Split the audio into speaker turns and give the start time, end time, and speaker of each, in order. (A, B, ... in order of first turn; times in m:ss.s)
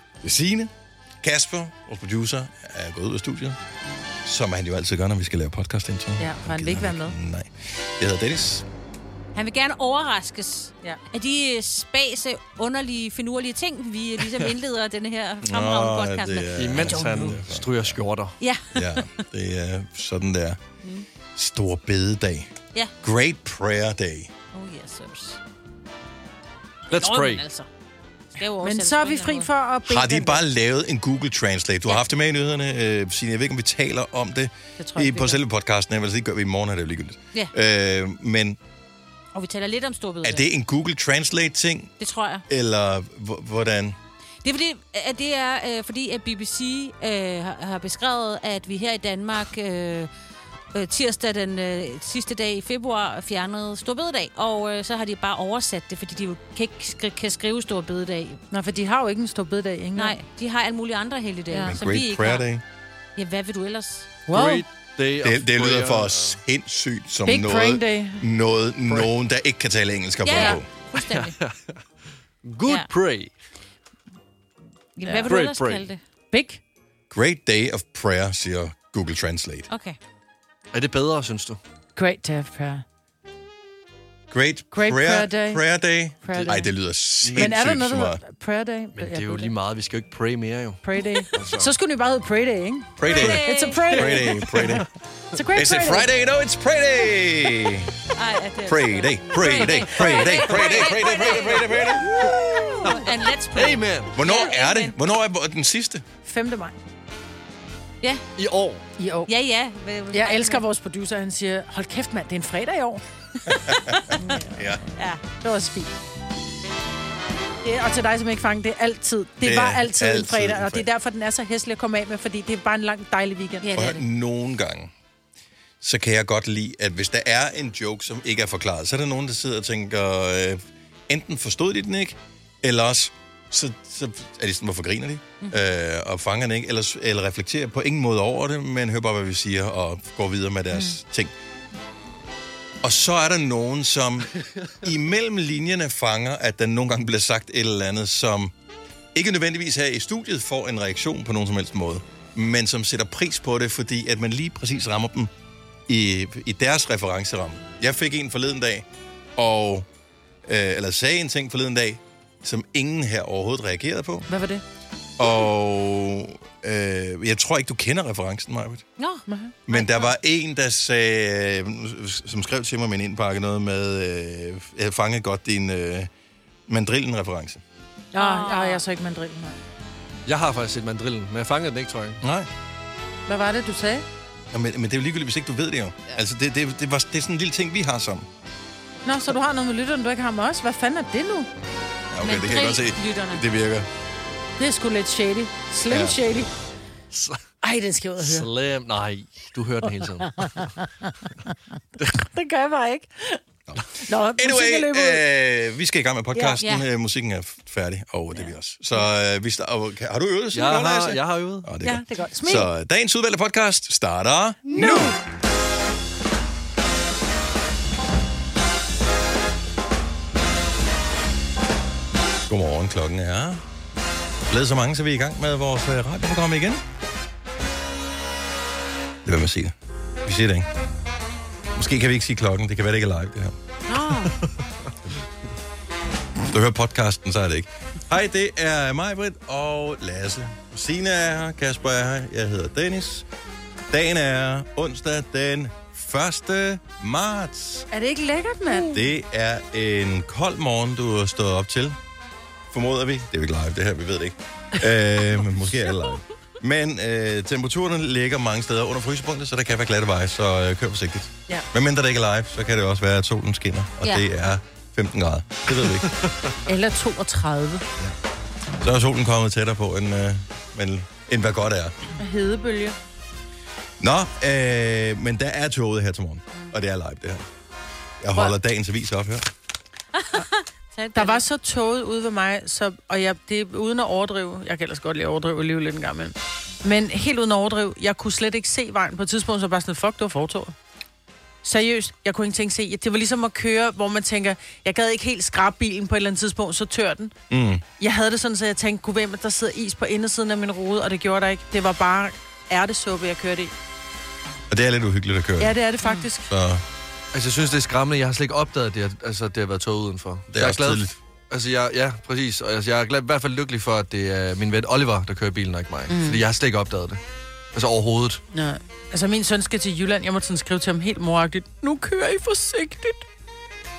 0:00.2-0:00.7 A
0:01.2-0:03.6 A
0:04.2-0:08.7 A
0:06.2-0:07.2 B
0:09.4-0:16.9 C
0:15.4-0:18.0 A
0:16.6-0:18.3 D
0:18.4-0:19.0 C
0:18.7-0:20.6 A
0:21.4-0:24.3 A
0:24.5-0:25.4 C
0:26.9-0:27.5 D
0:27.0-0:27.7 C
0:28.4-0:29.5 C
0:28.6-0:30.4 B
0:29.9-0:38.6 A
0:34.8-0:35.4 B
0:39.3-0:40.4 C
0:40.2-0:41.9 A
0:42.0-0:42.4 C
0:42.5-0:44.0 A
0:44.4-0:50.1 C
0:50.7-0:58.4 C
0:58.5-1:00.2 B
1:00.0-1:02.4 C
1:01.5-1:01.8 B
1:01.7-1:02.6 A
1:03.2-1:04.2 C
1:04.3-1:04.6 B
1:04.3-1:06.4 D
1:05.2-1:10.7 A
1:07.3-1:08.2 B
1:10.2-1:11.4 C
1:11.0-1:11.8 D
1:12.5-1:13.3 D
1:15.0-1:16.0 C
1:15.2-1:15.9 D
1:16.3-1:16.6 B
1:17.1-1:19.7 A
1:19.7-1:20.0 C
1:20.7-1:21.6 D
1:22.0-1:22.8 B
1:24.3-1:28.2 A
1:24.7-1:25.6 B
1:26.2-1:26.7 B
1:27.2-1:27.5 D
1:27.4-1:29.5 B
1:29.0-1:30.8 D
1:30.8-1:34.7 B
1:31.3-1:31.7 D
1:33.0-1:34.9 A
1:33.1-1:33.9 C
1:33.9-1:34.9 D
1:35.3-1:36.1 B
1:35.5-1:37.9 A
1:38.2-1:41.8 C
1:38.6-1:42.1 A
1:40.3-1:41.6 B
1:42.1-1:43.8 B
1:42.9-1:43.3 C
1:43.6-1:44.1 D
1:44.2-1:46.0 A
1:44.2-1:45.0 C
1:46.2-1:46.8 B
1:48.4-1:48.8 D
1:49.0-1:49.3 B
1:49.3-1:50.6 C
1:50.1-1:54.6 B
1:54.6-1:54.8 A
1:55.0-1:55.2 C
1:55.2-1:55.9 B
1:57.6-2:03.8 B
1:59.4-2:00.8 A
2:03.6-2:04.0 C
2:03.7-2:04.9 A
2:05.8-2:21.3 A
2:22.8-2:28.5 A
2:29.2-2:35.3 A
2:35.9-2:38.8 A
2:39.4-2:39.9 A
2:40.5-2:44.3 A
2:44.3-2:44.6 B
2:45.2-2:48.9 A
2:49.0-2:50.1 C
2:49.3-2:49.6 B
2:49.7-2:56.1 A
2:56.7-2:57.6 A
2:58.1-2:59.6 B
2:58.2-2:58.8 C
3:00.3-3:02.2 D
3:02.2-3:02.5 A
3:03.3-3:04.0 B
3:04.5-3:08.3 A
3:09.0-3:11.5 B
3:12.1-3:13.9 A
3:12.2-3:13.4 C
3:14.6-3:16.5 B
3:15.9-3:16.2 A
3:17.1-3:17.4 D
3:17.6-3:18.5 B
3:18.2-3:20.5 D
3:20.4-3:21.3 B
3:22.1-3:23.4 B
3:24.1-3:25.2 B
3:24.4-3:35.1 A
3:26.5-3:26.9 C
3:30.5-3:31.7 D
3:31.8-3:32.7 B
3:34.8-3:35.1 B
3:42.5-3:43.6 A
3:44.5-3:46.8 A
3:49.2-3:49.7 A
3:50.2-3:50.7 A
3:51.7-3:53.5 A
3:53.9-3:54.4 C
3:56.5-4:03.3 A
4:03.9-4:07.9 A
4:07.9-4:08.9 B
4:08.9-4:12.0 A
4:12.7-4:26.1 A
4:26.7-4:27.9 B
4:28.8-4:31.9 A
4:32.2-4:33.0 B
4:34.0-4:37.4 A
4:38.2-4:39.5 A
4:40.1-4:41.4 C
4:41.2-4:50.8 B
4:51.6-4:57.3 B
4:57.5-4:57.8 A
4:58.0-5:03.7 B
5:04.7-5:05.8 A
5:05.6-5:06.5 B
5:06.5-5:06.8 A
5:07.3-5:17.2 D
5:10.5-5:11.2 A
5:16.1-5:16.4 B
5:17.7-5:18.4 D
5:18.5-5:23.2 B